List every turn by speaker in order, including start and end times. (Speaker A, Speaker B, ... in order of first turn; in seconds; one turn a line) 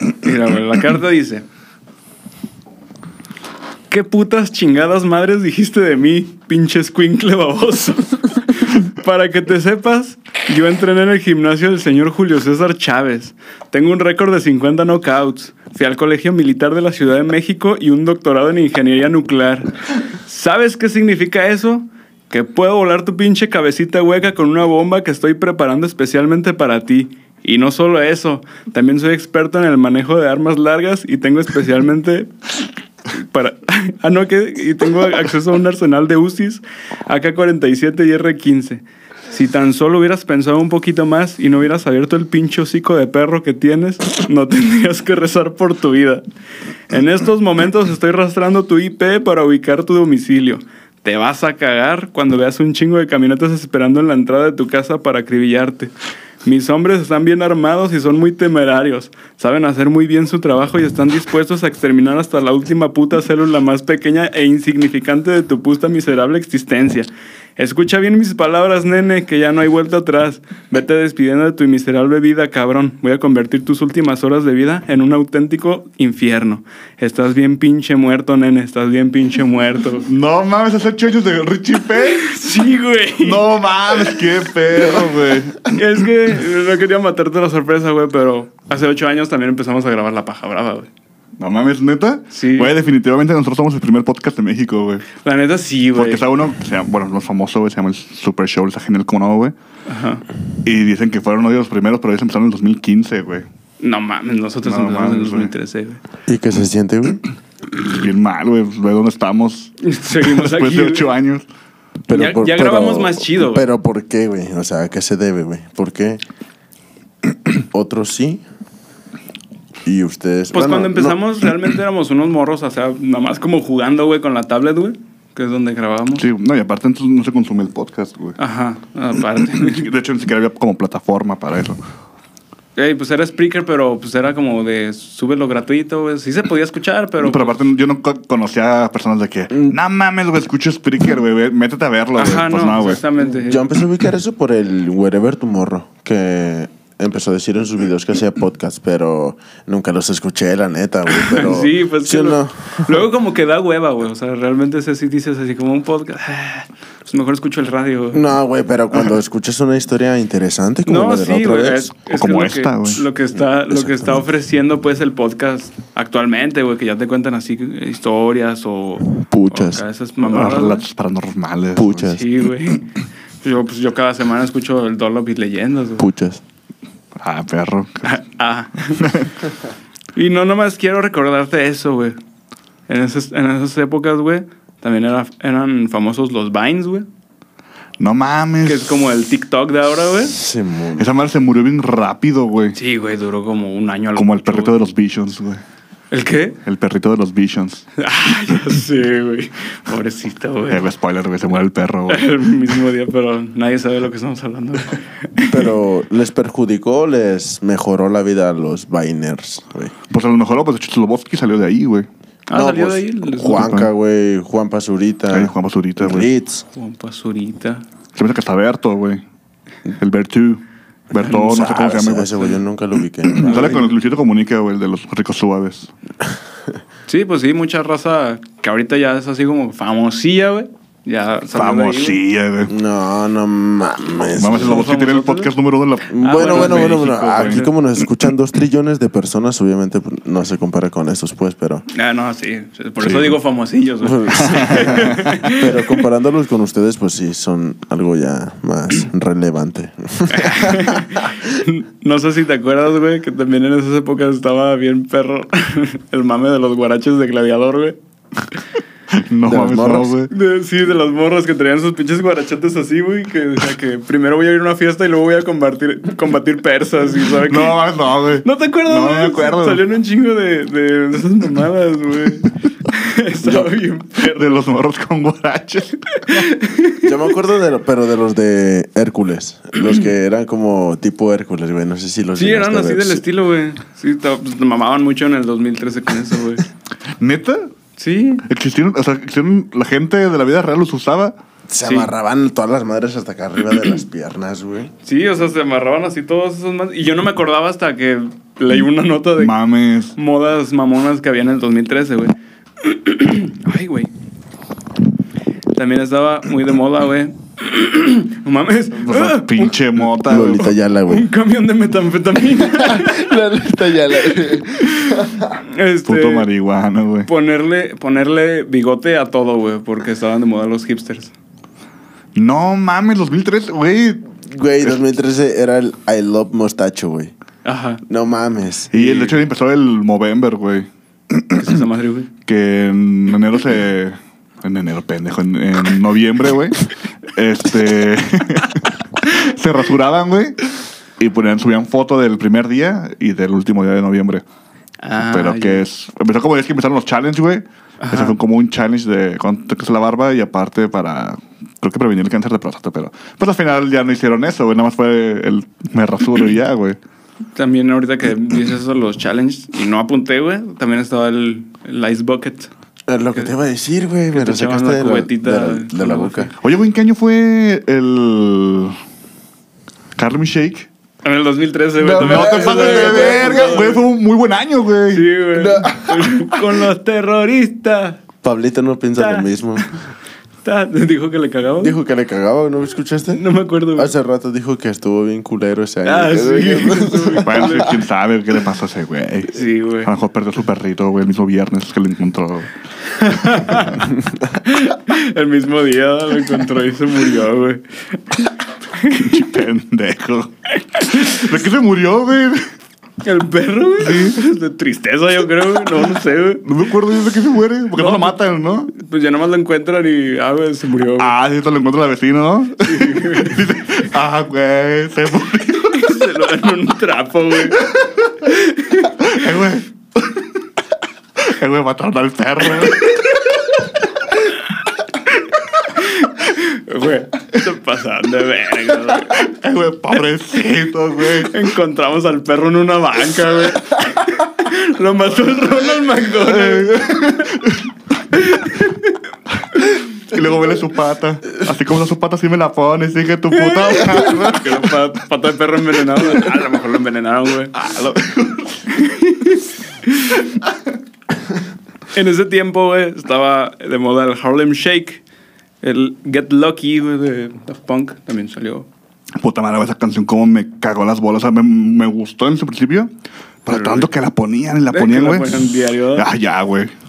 Speaker A: 0.2-1.4
Speaker A: 3.9-19.7
Speaker A: 20.2-32.3
Speaker A: 33.1-46.2
Speaker A: 46.9-55.9
Speaker A: 56.4-80.1
Speaker B: 80.1-82.3
Speaker A: 82.0-84.2
Speaker B: 83.2-85.8
Speaker A: 85.7-90.9
Speaker B: 91.4-95.0
Speaker A: 92.3-92.7
Speaker A: 95.2-96.2
Speaker B: 95.9-99.5
Speaker A: 99.9-100.2
Speaker B: 100.6-103.5
Speaker A: 103.8-106.0
Speaker B: 104.6-105.5
Speaker C: 106.3-107.2
Speaker B: 107.8-111.4
Speaker A: 109.8-111.1
Speaker C: 112.1-116.2
Speaker A: 112.1-113.6
Speaker C: 117.7-118.4
Speaker C: 119.8-121.2
Speaker A: 120.5-126.2
Speaker B: 126.2-128.4
Speaker A: 128.4-129.8
Speaker B: 129.5-131.8
Speaker A: 132.8-137.6
Speaker B: 137.2-143.0
Speaker C: 139.5-139.8
Speaker A: 142.2-143.7
Speaker C: 143.2-153.1
Speaker A: 151.1-158.2
Speaker C: 158.1-161.9
Speaker A: 160.8-170.8
Speaker B: 162.1-163.0
Speaker C: 163.4-164.2
Speaker C: 169.1-169.8
Speaker B: 170.2-172.2
Speaker C: 171.7-172.2
Speaker A: 172.0-172.9
Speaker A: 173.4-176.1
Speaker C: 176.0-176.4
Speaker B: 177.2-178.2
Speaker A: 178.0-179.1
Speaker B: 178.9-179.3
Speaker A: 180.1-182.2
Speaker A: 182.9-187.1
Speaker B: 188.0-188.9
Speaker A: 188.6-190.4
Speaker C: 190.3-191.1
Speaker B: 191.0-192.8
Speaker A: 192.7-194.8
Speaker B: 194.2-195.6
Speaker A: 196.1-196.6
Speaker B: 196.6-197.9
Speaker A: 198.0-200.8
Speaker B: 200.7-202.3
Speaker A: 202.1-205.7
Speaker C: 205.4-209.9
Speaker B: 210.1-212.1
Speaker A: 212.5-213.7
Speaker C: 212.5-216.6
Speaker B: 213.5-213.9
Speaker B: 215.3-216.3
Speaker A: 216.7-217.8
Speaker B: 218.1-219.2
Speaker B: 219.9-222.5
Speaker C: 221.2-223.9
Speaker B: 223.3-225.9
Speaker A: 227.1-232.2
Speaker B: 231.5-232.7
Speaker C: 232.7-235.0
Speaker B: 234.4-237.6
Speaker A: 234.5-235.5
Speaker C: 236.1-241.8
Speaker A: 236.2-237.7
Speaker A: 241.9-246.0
Speaker B: 243.0-243.4
Speaker C: 244.0-251.3
Speaker B: 244.3-245.4
Speaker A: 250.3-258.0
Speaker B: 259.1-260.3
Speaker C: 259.4-260.1
Speaker A: 260.3-267.8
Speaker B: 267.3-269.8
Speaker A: 268.4-274.6
Speaker C: 273.4-273.7
Speaker B: 274.2-276.5
Speaker A: 276.1-277.1
Speaker C: 277.0-283.2
Speaker A: 282.4-286.6
Speaker B: 287.2-287.7
Speaker A: 288.0-288.4
Speaker B: 288.5-291.3
Speaker C: 291.7-294.9
Speaker A: 291.8-292.1
Speaker A: 295.0-299.5
Speaker B: 299.4-300.1
Speaker A: 300.1-304.1
Speaker A: 305.7-309.7
Speaker B: 309.0-310.7
Speaker C: 310.2-311.3
Speaker A: 311.1-313.3
Speaker C: 312.6-315.6
Speaker A: 314.8-316.5
Speaker B: 316.1-317.3
Speaker A: 317.2-321.3
Speaker B: 322.3-325.0
Speaker C: 324.5-327.3
Speaker A: 327.6-328.0
Speaker C: 328.1-329.3
Speaker B: 328.9-331.8
Speaker A: 331.5-332.3
Speaker B: 332.4-344.4
Speaker A: 345.0-345.8
Speaker B: 345.2-357.0
Speaker A: 348.0-348.4
Speaker A: 357.5-362.7
Speaker C: 363.1-366.5
Speaker A: 364.3-366.5
Speaker B: 366.6-369.0
Speaker B: 370.1-370.9
Speaker A: 371.2-374.0
Speaker C: 372.0-373.9
Speaker B: 372.1-375.3
Speaker A: 375.1-378.2
Speaker C: 375.5-376.5
Speaker C: 378.4-379.9
Speaker A: 379.2-380.0
Speaker A: 380.6-381.9
Speaker C: 381.8-383.4
Speaker A: 383.3-384.1
Speaker C: 383.9-387.9
Speaker A: 386.0-388.0
Speaker B: 387.4-392.7
Speaker A: 389.5-390.1
Speaker A: 393.1-394.0
Speaker B: 393.5-394.0
Speaker A: 394.6-399.5
Speaker B: 399.1-402.6
Speaker A: 403.2-406.6
Speaker B: 404.0-404.4
Speaker B: 406.6-408.9
Speaker A: 408.0-408.4
Speaker A: 408.9-411.3
Speaker B: 411.2-416.3
Speaker A: 412.8-413.6
Speaker A: 415.9-417.9
Speaker A: 418.4-419.2
Speaker B: 419.2-420.4
Speaker B: 421.4-423.4
Speaker A: 422.8-423.4
Speaker A: 425.9-429.5
Speaker B: 429.2-431.7
Speaker A: 431.4-437.4
Speaker B: 436.4-437.9
Speaker A: 438.3-439.1
Speaker B: 439.7-445.1
Speaker A: 443.5-447.7
Speaker B: 447.7-448.9
Speaker A: 448.9-450.4
Speaker A: 452.1-455.2
Speaker A: 455.8-458.9
Speaker B: 459.4-463.1
Speaker B: 463.6-466.9
Speaker A: 463.7-464.1
Speaker A: 464.9-466.3